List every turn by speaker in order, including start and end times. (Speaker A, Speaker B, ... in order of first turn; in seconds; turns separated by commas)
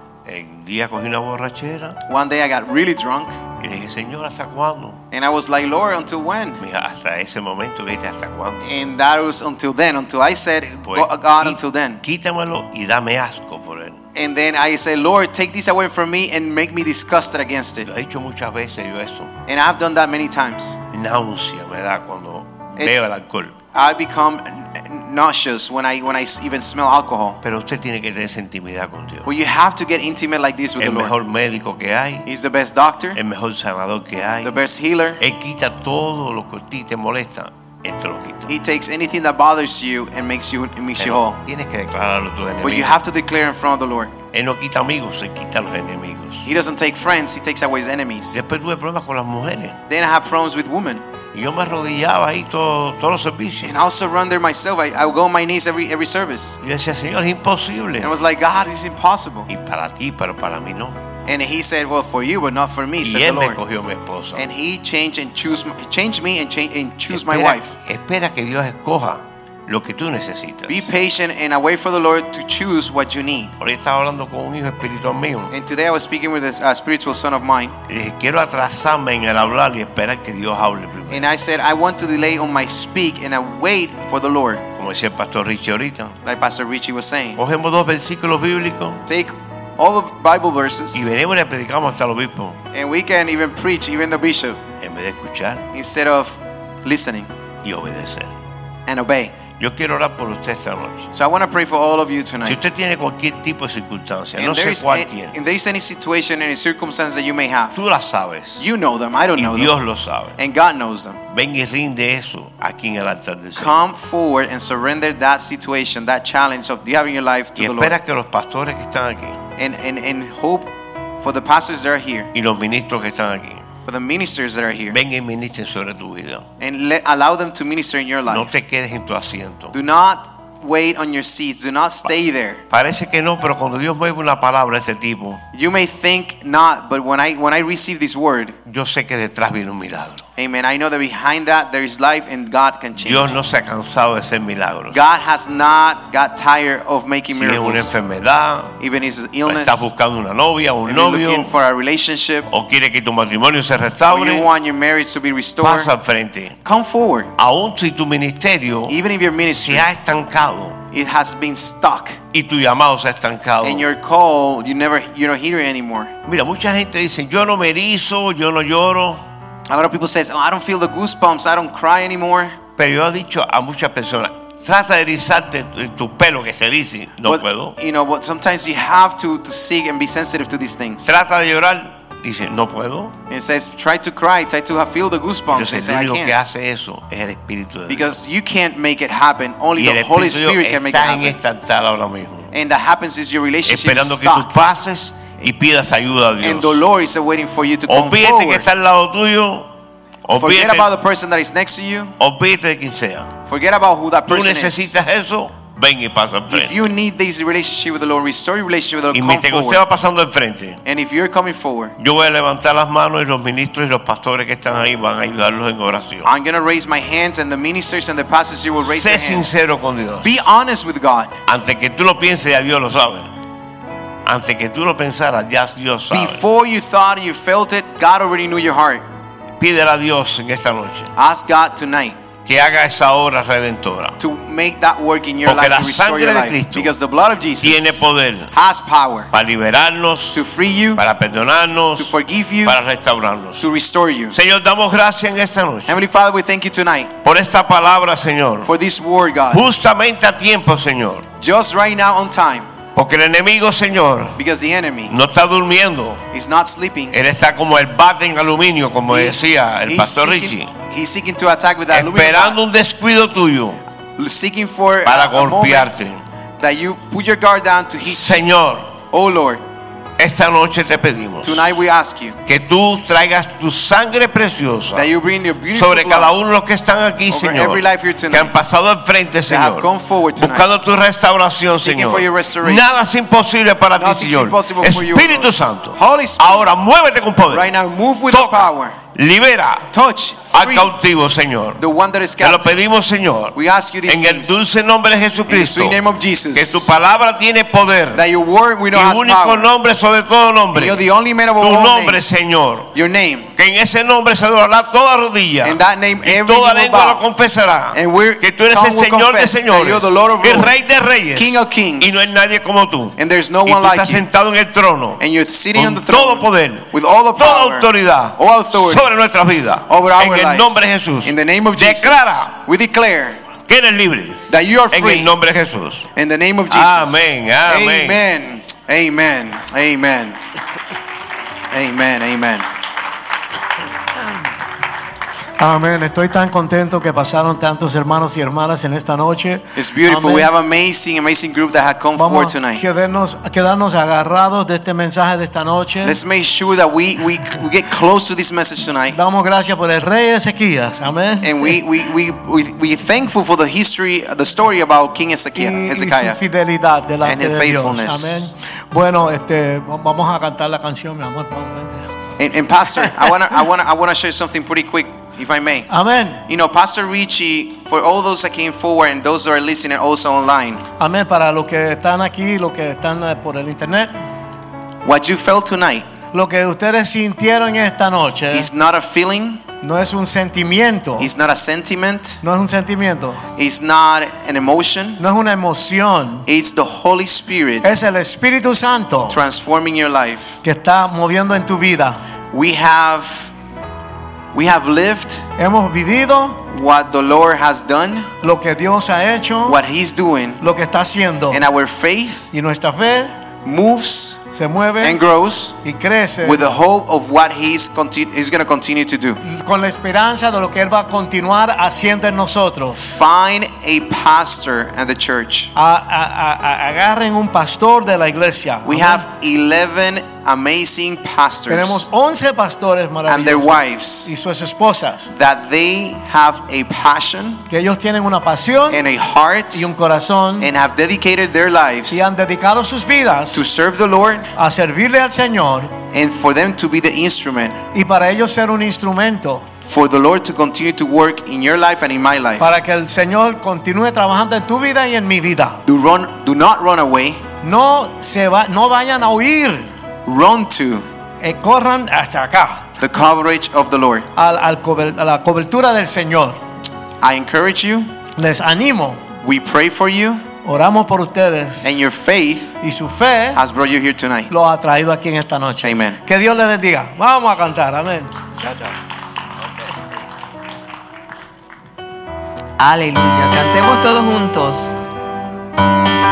Speaker A: 0.2-2.0, Speaker B: 2.1-3.4, Speaker A: 3.6-5.0, Speaker B: 5.1-6.6, Speaker A: 6.6-8.7, Speaker B: 8.6-12.0, Speaker A: 10.8-14.0, Speaker B: 14.1-17.9, Speaker A: 17.9-19.3, Speaker B: 19.5-20.8, Speaker A: 20.9-23.5, Speaker B: 22.8-23.1, Speaker B: 23.7-27.4, Speaker A: 27.4-29.3, Speaker B: 29.2-31.1, Speaker A: 30.8-32.3, Speaker B: 32.2-33.2, Speaker A: 33.1-34.6, Speaker B: 34.4-35.2, Speaker A: 35.2-38.5, Speaker B: 38.5-41.4, Speaker A: 41.0-43.0, Speaker B: 42.6-44.1, Speaker A: 44.3-46.5, Speaker B: 46.4-48.4, Speaker A: 48.3-49.8, Speaker B: 49.9-51.0, Speaker A: 51.3-53.7, Speaker B: 53.6-56.6, Speaker A: 56.6-58.2, Speaker B: 58.0-59.5, Speaker A: 59.5-61.0, Speaker B: 61.3-63.6, Speaker A: 63.0-64.5, Speaker B: 64.3-67.7, Speaker A: 67.1-70.9, Speaker B: 70.7-73.5, Speaker A: 73.6-75.5, Speaker B: 75.5-77.7, Speaker A: 77.9-81.3, Speaker B: 81.1-84.6, Speaker A: 84.8-86.2, Speaker B: 86.2-87.4, Speaker A: 87.3-89.0, Speaker B: 89.1-91.1, Speaker A: 90.9-92.6, Speaker B: 92.7-94.6, Speaker A: 94.8-95.7, Speaker B: 95.7-97.3, Speaker A: 97.6-98.3, Speaker B: 98.9-99.4, Speaker A: 99.6-101.1, Speaker B: 101.1-102.6, Speaker A: 102.4-105.3, Speaker B: 104.4-107.8, Speaker A: 107.8-108.7, Speaker B: 108.6-109.7, Speaker A: 109.3-110.4, Speaker B: 110.4-111.2, Speaker A: 111.3-113.8, Speaker B: 113.6-118.0, Speaker A: 117.6-119.4, Speaker B: 119.6-122.3, Speaker A: 122.3-123.7, Speaker B: 123.8-125.0, Speaker A: 124.9-126.4, Speaker B: 126.6-128.6, Speaker A: 128.3-129.8, Speaker B: 129.7-132.6, Speaker A: 132.7-135.4, Speaker B: 135.5-138.6, Speaker A: 138.7-140.2, Speaker B: 140.4-143.3, Speaker A: 143.0-145.0, Speaker B: 144.9-147.9, Speaker A: 147.3-148.8, Speaker B: 148.8-149.9, Speaker A: 149.4-151.5, Speaker B: 150.9-152.5, Speaker A: 152.5-154.5, Speaker B: 154.1-155.9, Speaker A: 155.6-156.6, Speaker B: 156.6-157.3, Speaker A: 157.4-159.0, Speaker B: 158.9-159.9, Speaker A: 159.5-160.8, Speaker B: 160.9-162.2, Speaker A: 162.3-163.8, Speaker B: 163.6-166.1, Speaker A: 166.2-169.2, Speaker B: 169.7-172.6, Speaker A: 172.8-177.8, Speaker B: 177.2-181.1, Speaker A: 181.0-183.1, Speaker B: 183.3-186.3, Speaker A: 185.5-188.2, Speaker B: 187.9-191.4, Speaker A: 189.8-192.5, Speaker B: 192.5-194.6, Speaker A: 193.7-196.8, Speaker B: 196.4-198.7, Speaker A: 197.9-199.7, Speaker A: 200.2-200.9, Speaker B: 200.4-202.1, Speaker A: 202.2-203.3, Speaker B: 203.4-204.9, Speaker A: 204.3-206.9, Speaker B: 206.5-209.8, Speaker A: 209.1-210.8, Speaker B: 210.8-211.9, Speaker A: 212.0-216.3, Speaker B: 216.2-219.7, Speaker A: 218.8-220.3, Speaker B: 220.2-221.3, Speaker A: 221.5-223.3, Speaker A: 224.2-226.4, Speaker B: 226.1-229.0, Speaker A: 229.6-231.1, Speaker B: 231.2-232.2, Speaker A: 232.4-234.2, Speaker B: 234.2-239.3, Speaker A: 235.4-236.9, Speaker A: 237.6-238.5, Speaker A: 239.3-240.4, Speaker B: 240.3-241.0, Speaker A: 240.9-242.1, Speaker B: 242.0-242.8, Speaker A: 242.6-243.7, Speaker B: 243.6-244.3, Speaker A: 244.3-246.0, Speaker B: 245.9-247.1, Speaker A: 247.2-248.7, Speaker B: 248.6-249.6, Speaker A: 249.5-251.2, Speaker B: 251.4-252.7, Speaker A: 252.9-254.4, Speaker B: 254.4-255.1, Speaker A: 255.1-256.2, Speaker B: 256.3-257.1, Speaker A: 257.1-260.7, Speaker B: 259.1-262.6, Speaker A: 261.9-263.8, Speaker B: 264.2-265.9, Speaker A: 265.0-266.2, Speaker B: 266.6-268.4, Speaker A: 268.1-268.9, Speaker B: 269.1-269.6, Speaker A: 270.2-271.8, Speaker B: 271.4-272.4, Speaker A: 272.4-275.1, Speaker B: 274.9-276.3, Speaker A: 275.7-287.7, Speaker B: 277.3-278.5, Speaker B: 279.5-280.7, Speaker B: 281.7-282.8, Speaker B: 283.9-286.7, Speaker B: 287.5-288.9, Speaker A: 288.3-289.9, Speaker B: 289.9-290.9, Speaker A: 290.5-291.8, Speaker B: 291.8-292.7, Speaker A: 292.4-296.0, Speaker B: 293.5-294.6, Speaker B: 295.5-296.9, Speaker A: 296.5-298.2, Speaker B: 298.1-299.7, Speaker A: 298.9-301.0, Speaker B: 300.7-302.3, Speaker A: 301.6-302.9, Speaker B: 302.9-303.5, Speaker A: 303.5-315.2, Speaker B: 305.6-307.2, Speaker B: 307.9-310.7, Speaker B: 311.3-312.3, Speaker B: 313.2-314.2, Speaker B: 315.2-319.1, Speaker A: 315.7-322.5, Speaker B: 319.9-323.4, Speaker A: 323.7-326.1, Speaker B: 324.5-325.3, Speaker B: 326.1-330.4, Speaker A: 326.7-328.2, Speaker B: 331.7-332.7, Speaker C: 335.6-340.5, Speaker B: 339.8-342.8, Speaker C: 342.1-346.2, Speaker B: 346.0-349.2, Speaker C: 349.1-351.8, Speaker B: 351.4-356.4, Speaker C: 355.5-362.1, Speaker B: 357.2-358.5, Speaker B: 362.4-365.9, Speaker C: 365.9-366.4, Speaker B: 366.5-370.8, Speaker C: 371.0-374.1, Speaker B: 375.0-376.1, Speaker C: 376.3-378.7, Speaker B: 378.5-379.6, Speaker C: 379.8-381.3, Speaker B: 381.2-382.4, Speaker C: 382.4-383.4, Speaker B: 383.6-385.2, Speaker C: 385.2-386.5, Speaker B: 386.5-387.9, Speaker C: 387.8-389.4, Speaker B: 389.3-390.6, Speaker C: 390.6-392.2, Speaker B: 392.5-393.5, Speaker B: 394.5-395.4, Speaker C: 395.6-396.6, Speaker B: 396.7-398.3, Speaker C: 398.4-399.8, Speaker B: 399.6-400.6, Speaker C: 400.6-401.6, Speaker B: 401.5-402.5, Speaker C: 402.5-403.3, Speaker B: 403.6-404.4, Speaker C: 404.5-405.2, Speaker B: 405.0-405.8, Speaker C: 405.8-406.6, Speaker B: 406.4-409.4, Speaker C: 409.4-413.1, Speaker B: 413.0-415.7, Speaker C: 415.7-419.2, Speaker B: 418.8-422.0, Speaker C: 421.7-425.3, Speaker B: 423.3-424.3, Speaker B: 425.3-427.6, Speaker C: 427.7-429.1, Speaker B: 428.9-429.9, Speaker C: 429.7-430.7, Speaker B: 430.6-432.2, Speaker C: 432.1-433.6, Speaker B: 433.5-434.5, Speaker C: 434.5-435.9, Speaker B: 436.1-437.8, Speaker C: 437.9-439.7, Speaker B: 439.8-442.7, Speaker C: 442.6-445.8, Speaker B: 445.8-447.4, Speaker C: 447.6-449.9, Speaker B: 450.2-451.1, Speaker C: 451.4-452.9, Speaker B: 453.0-454.3, Speaker C: 454.4-456.6, Speaker B: 457.2-458.1, Speaker C: 458.4-459.2, Speaker B: 459.4-460.5, Speaker C: 460.6-462.0, Speaker B: 461.8-462.8, Speaker C: 462.8-463.6, Speaker B: 463.5-464.5, Speaker C: 464.5-468.9, Speaker B: 465.8-466.2, Speaker D: 472.8-475.1